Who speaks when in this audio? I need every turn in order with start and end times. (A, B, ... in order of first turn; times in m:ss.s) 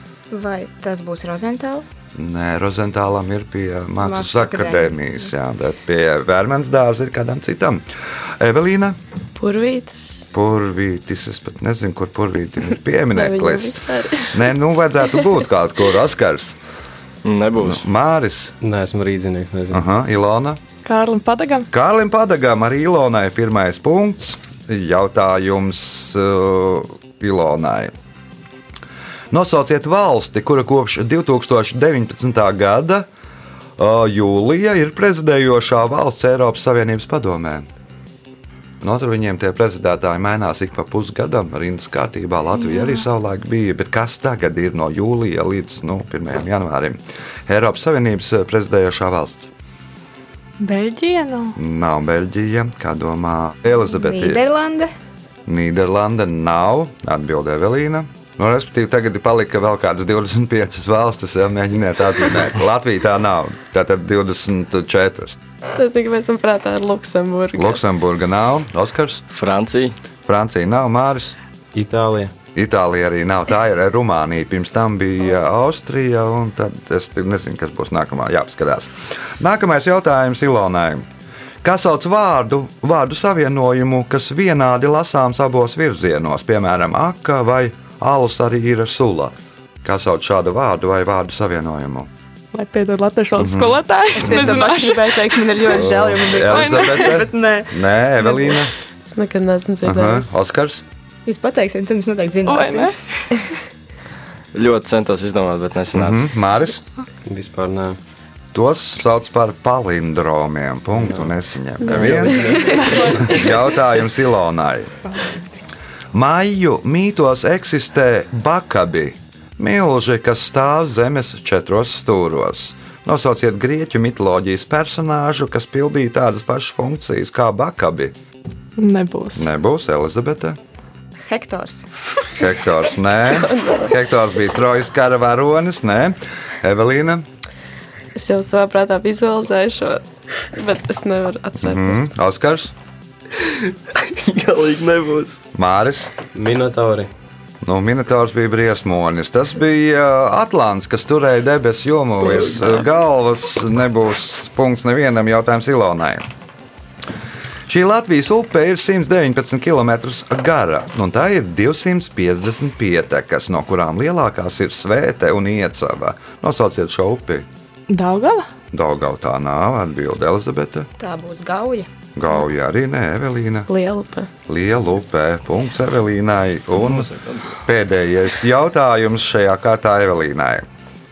0:00.3-0:02.0 A
0:02.2-0:07.8 B
0:04.0-0:05.3 A
0:08.4-0:09.0 B
0:09.4-0:10.3 C
0:10.3-0:16.6 B
0:13.1-0:14.5 C
0:17.2-0:17.8 D
0:17.6-0:18.5 B
0:18.6-0:19.8 E
0:19.7-0:20.6 B
0:20.8-0:21.7 F
0:21.7-0:27.9 B
0:29.3-0:33.1 B
0:33.8-0:37.7 B
0:38.8-0:49.5 B
0:42.7-0:43.0 F
0:50.6-0:51.6 F
0:51.6-0:54.4 B
0:53.9-0:54.9 A
0:55.5-1:05.4 B
1:05.6-1:07.8 C
1:07.6-1:09.2 B
1:09.3-1:10.0 D
1:10.2-1:11.4 B
1:11.7-1:12.3 E
1:12.6-1:21.0 B
1:21.6-1:32.1 B
1:32.5-1:35.9 F
1:33.4-1:34.6 B
1:34.2-1:37.8 A
1:35.7-1:38.7 B
1:36.4-1:37.2 F
1:39.0-1:40.4 C
1:39.8-1:40.8 B
1:41.3-1:42.9 A
1:42.4-1:43.3 F
1:44.5-1:46.3 D
1:45.9-1:46.8 B
1:47.2-1:48.0 E
1:48.5-1:54.9 B
1:51.0-1:51.3 E
1:51.8-1:53.2 E
1:52.7-1:53.6 F
1:55.0-1:55.5 A
1:56.1-2:08.2 B
2:08.8-2:09.5 F
2:09.4-2:10.6 B
2:11.3-2:11.9 A
2:12.3-2:17.2 B
2:13.3-2:13.9 C
2:18.2-2:22.1 C
2:21.6-2:22.7 B
2:23.5-2:25.4 D
2:25.6-2:26.1 B
2:26.3-2:27.1 E
2:27.6-2:36.3 B
2:37.7-2:47.5 B
2:47.9-2:48.5 F
2:48.7-2:50.9 B
2:51.0-2:51.9 A
2:52.2-2:53.7 B
2:53.7-2:54.3 C
2:54.5-2:57.1 B
2:56.8-2:57.6 D
2:57.6-3:00.6 B